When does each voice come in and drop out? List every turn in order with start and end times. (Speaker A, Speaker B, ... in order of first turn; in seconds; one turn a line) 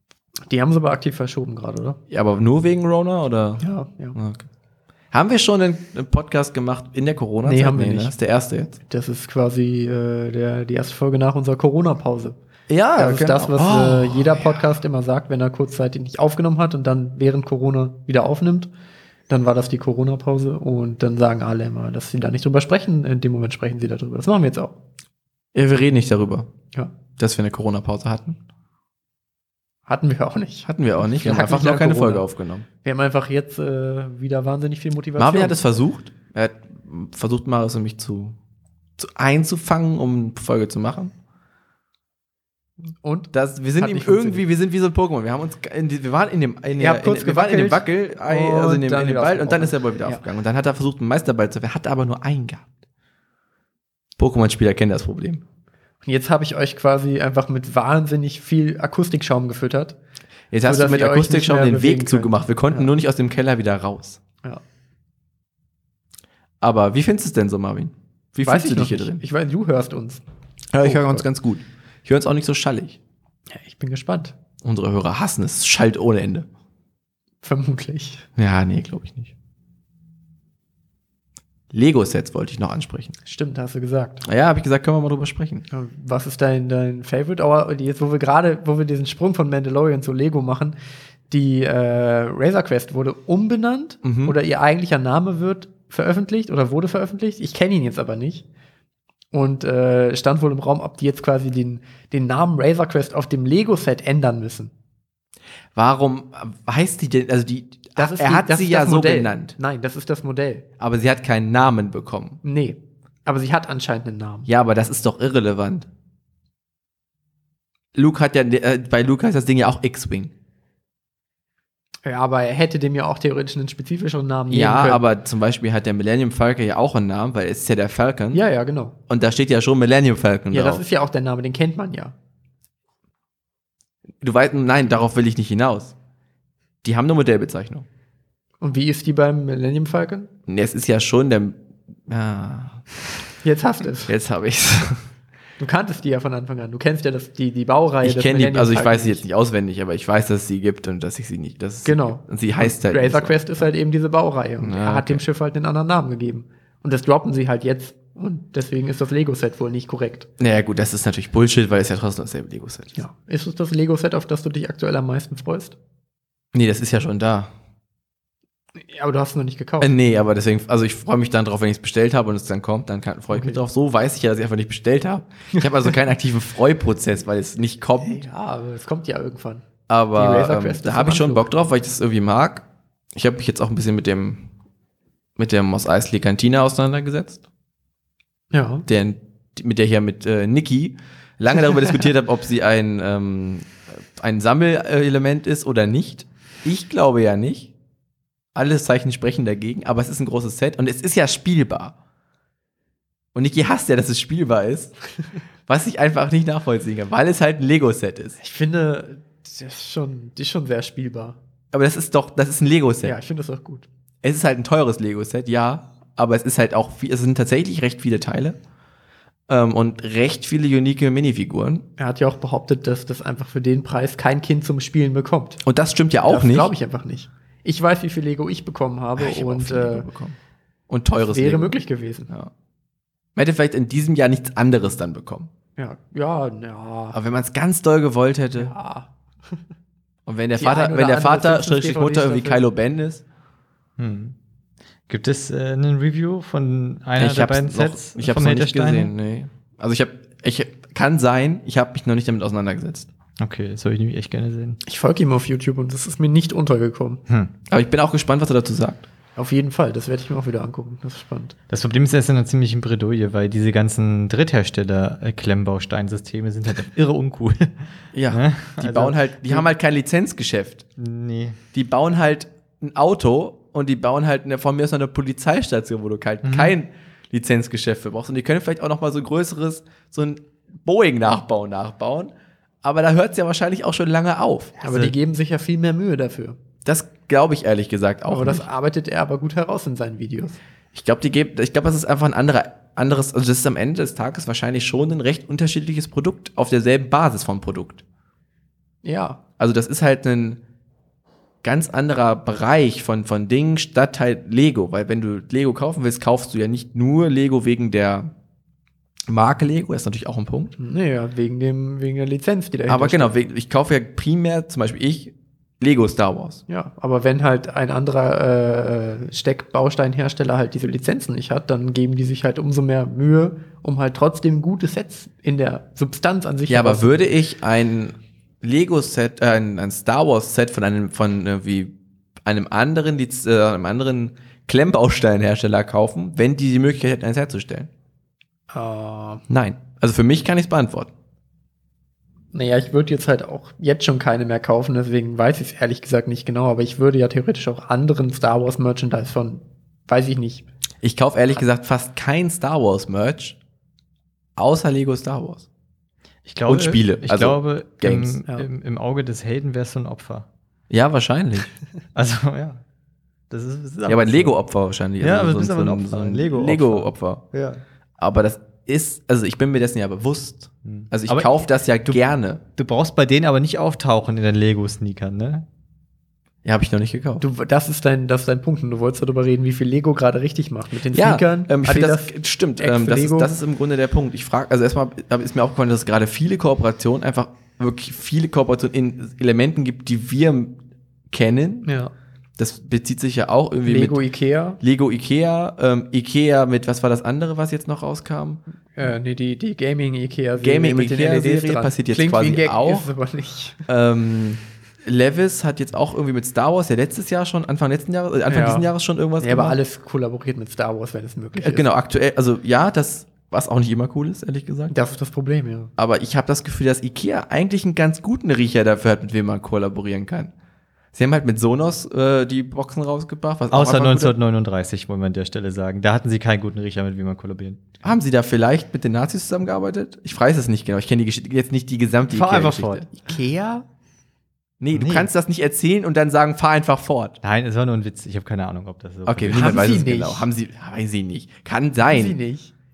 Speaker A: 0.5-2.0
Speaker B: 2.1-4.5
Speaker A: 3.6-4.2
Speaker B: 5.1-8.8
Speaker A: 7.4-8.1
Speaker A: 8.9-12.3
Speaker B: 12.7-14.7
Speaker A: 12.9-18.7
Speaker A: 19.3-24.8
Speaker B: 25.5-26.5
Speaker B: 27.2-28.4
Speaker A: 29.9-32.2
Speaker B: 30.7-32.6
Speaker A: 32.8-35.6
Speaker B: 35.2-38.4
Speaker B: 39.0-41.1
Speaker A: 43.0-44.4
Speaker B: 43.3-52.6
Speaker A: 46.8-50.2
Speaker B: 54.2-55.4
Speaker A: 56.0-60.0
Speaker B: 60.5-64.2
Speaker A: 60.6-62.9
Speaker B: 66.6-69.2
Speaker A: 68.4-70.2
Speaker B: 70.7-73.0
Speaker A: 70.8-71.2
Speaker A: 73.5-74.3
Speaker B: 74.6-76.5
Speaker A: 77.4-78.2
Speaker B: 78.3-79.3
Speaker B: 81.7-83.1
Speaker A: 83.2-84.2
Speaker B: 84.2-85.6
Speaker A: 85.7-90.8
Speaker A: 91.3-98.4
Speaker B: 94.0-94.3
Speaker A: 99.3-104.7
Speaker B: 105.7-109.5
Speaker A: 108.0-110.6
Speaker B: 110.8-112.4
Speaker A: 112.4-114.5
Speaker B: 114.5-115.9
Speaker B: 117.9-120.3
Speaker A: 122.0-125.0
Speaker B: 124.5-128.4
Speaker A: 128.3-128.9
Speaker B: 129.1-130.8
Speaker A: 130.5-132.1
Speaker B: 134.2-135.9
Speaker B: 136.8-137.8
Speaker A: 138.6-140.3
Speaker B: 140.5-142.9
Speaker A: 143.4-144.1
Speaker B: 144.1-145.1
Speaker A: 145.6-149.2
Speaker B: 148.0-153.4
Speaker A: 151.8-160.3
Speaker B: 154.6-155.2
Speaker B: 160.4-163.0
Speaker A: 162.9-165.8
Speaker B: 166.5-167.5
Speaker A: 168.8-169.9
Speaker B: 169.8-178.2
Speaker A: 173.3-173.6
Speaker A: 178.0-181.4
Speaker B: 179.9-184.5
Speaker B: 185.4-187.4
Speaker A: 188.5-188.8
Speaker B: 188.8-197.7
Speaker B: 198.5-201.9
Speaker B: 203.3-204.9
Speaker B: 205.7-208.4
Speaker A: 208.4-211.4
Speaker B: 211.7-213.2
Speaker A: 213.0-213.9
Speaker B: 214.2-218.6
Speaker B: 219.5-221.8
Speaker A: 222.0-225.6
Speaker B: 225.6-226.7
Speaker A: 226.2-230.1
Speaker B: 229.2-230.4
Speaker B: 230.9-231.8
Speaker A: 231.2-232.3
Speaker B: 233.3-235.5
Speaker A: 235.8-237.2
Speaker B: 237.1-238.7
Speaker A: 238.6-239.6
Speaker B: 240.2-243.2
Speaker A: 240.6-242.6
Speaker C: 244.0-244.3
Speaker C: 245.1-249.1
Speaker B: 247.2-253.1
Speaker C: 253.4-254.8
Speaker A: 254.8-257.2
Speaker B: 257.7-259.1
Speaker A: 259.4-261.5
Speaker C: 261.7-269.6
Speaker B: 268.1-270.8
Speaker C: 271.0-271.6
Speaker B: 271.7-282.3
Speaker C: 276.4-276.7
Speaker B: 282.8-284.8
Speaker A: 284.8-286.6
Speaker C: 284.9-285.1
Speaker B: 286.8-288.7
Speaker A: 288.3-290.6
Speaker B: 290.9-298.0
Speaker A: 299.0-299.4
Speaker B: 299.6-300.6
Speaker B: 301.6-308.3
Speaker B: 309.3-310.7
Speaker A: 310.8-313.4
Speaker B: 312.9-316.6
Speaker A: 316.7-327.3
Speaker B: 326.7-331.9
Speaker B: 332.4-337.9
Speaker A: 338.7-339.4
Speaker B: 339.5-341.1
Speaker A: 342.5-350.7
Speaker B: 351.0-353.6
Speaker B: 354.6-355.6
Speaker C: 356.4-360.4
Speaker B: 356.6-358.4
Speaker B: 360.9-361.7
Speaker C: 362.1-362.8
Speaker C: 363.5-364.5
Speaker B: 364.1-367.4
Speaker C: 365.2-367.8
Speaker B: 368.2-372.6
Speaker C: 370.8-372.2
Speaker C: 372.7-375.6
Speaker B: 376.6-377.4
Speaker A: 377.4-383.6
Speaker B: 381.1-390.8
Speaker B: 391.3-391.9
Speaker A: 391.8-392.1
Speaker B: 392.6-394.2
Speaker A: 393.8-394.8
Speaker B: 394.8-398.6
Speaker A: 398.9-403.9
Speaker B: 400.6-403.1
Speaker B: 403.9-409.8
Speaker A: 408.5-408.9
Speaker A: 409.4-411.9
Speaker B: 411.6-414.9
Speaker A: 414.9-415.9
Speaker B: 416.0-420.5
Speaker B: 421.1-424.3
Speaker C: 423.7-427.9
Speaker B: 428.0-433.1
Speaker C: 432.3-433.1
Speaker A: 433.1-433.8
Speaker B: 434.8-437.4
Speaker C: 434.9-435.3
Speaker C: 437.4-439.9
Speaker B: 439.2-442.4
Speaker A: 439.5-440.5
Speaker A: 442.1-442.7